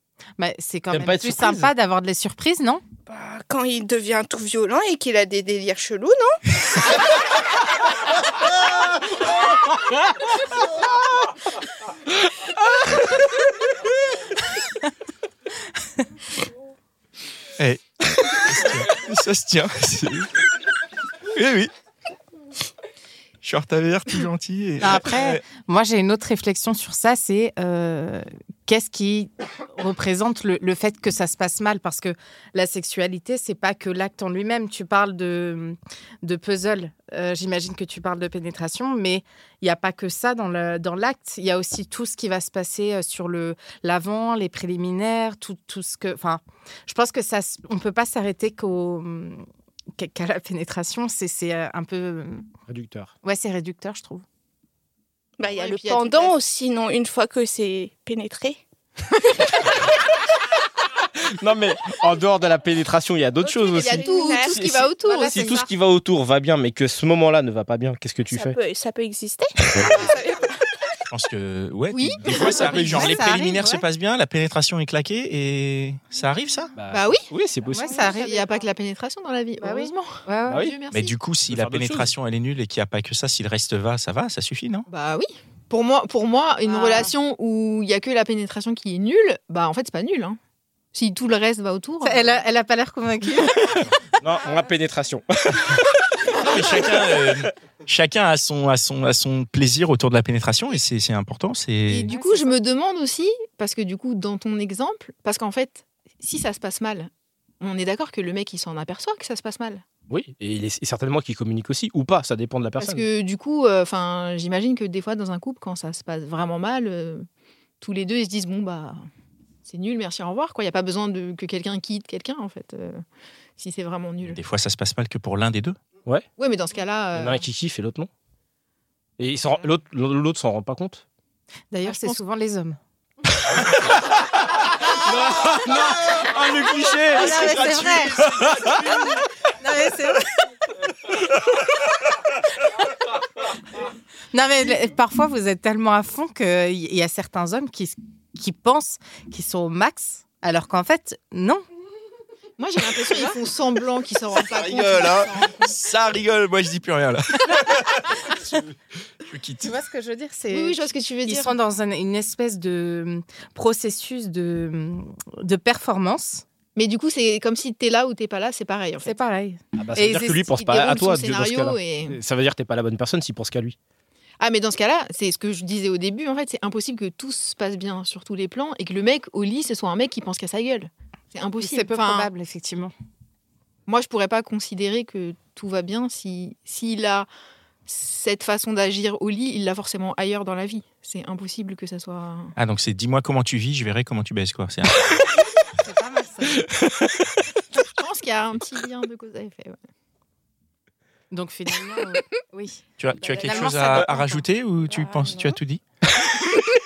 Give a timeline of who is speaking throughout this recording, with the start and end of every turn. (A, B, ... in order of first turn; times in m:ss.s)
0:00.4-0:02.8 A
0:00.9-0:01.7 B
0:03.1-0:06.5 C
0:17.6-0:20.3 D
0:21.3-0:21.7 D
0:23.4-0:25.4 D
0:24.8-0:49.4 A
0:50.0-0:52.4 A
0:52.7-0:53.1 B
0:53.2-0:54.2 A
0:55.4-0:58.6 C
0:55.4-0:56.3 E
1:01.2-1:08.6 B
1:03.4-1:04.7 C
1:03.7-1:05.6 E
1:05.1-1:05.6 A
1:08.3-1:10.5 C
1:11.1-1:16.7 D
1:11.9-1:13.4 E
1:12.7-1:13.8 A
1:16.8-1:18.0 B
1:16.9-1:17.2 E
1:17.7-1:18.6 A
1:17.8-1:21.2 E
1:19.6-1:20.6 A
1:20.5-1:20.8 B
1:20.9-1:24.9 D
1:21.5-1:22.1 B
1:24.9-1:30.4 E
1:26.7-1:27.1 A
1:30.9-1:32.4 E
1:32.0-1:33.9 A
1:34.2-1:37.4 B
1:36.3-1:42.1 D
1:41.9-1:49.8 E
1:42.1-1:42.6 A
1:50.1-1:53.0 B
1:52.8-1:57.2 E
1:57.8-1:59.0 E
1:59.6-2:03.0 E
2:03.6-2:04.4 E
2:04.2-2:05.8 D
2:06.4-2:07.4 E
2:07.1-2:08.1 B
2:09.2-2:11.0 B
2:11.7-2:12.8 A
2:11.8-2:12.2 E
2:15.0-2:18.6 B
2:17.1-2:20.3 A
2:18.2-2:18.5 D
2:24.3-2:31.6 A
2:32.6-2:35.7 E
2:34.3-2:38.6 D
2:39.2-2:39.7 D
2:39.6-2:46.4 A
2:40.5-2:41.6 E
2:46.7-2:49.2 E
2:49.0-2:50.7 A
2:49.8-2:53.8 B
2:50.6-2:52.2 E
2:54.4-3:02.3 E
3:01.6-3:02.9 A
3:03.9-3:07.3 E
3:07.9-3:12.5 E
3:12.6-3:15.1 D
3:15.8-3:16.6 A
3:17.8-3:19.8 E
3:21.3-3:24.4 A
3:23.0-3:25.8 D
3:23.3-3:24.2 E
3:24.9-3:25.6 C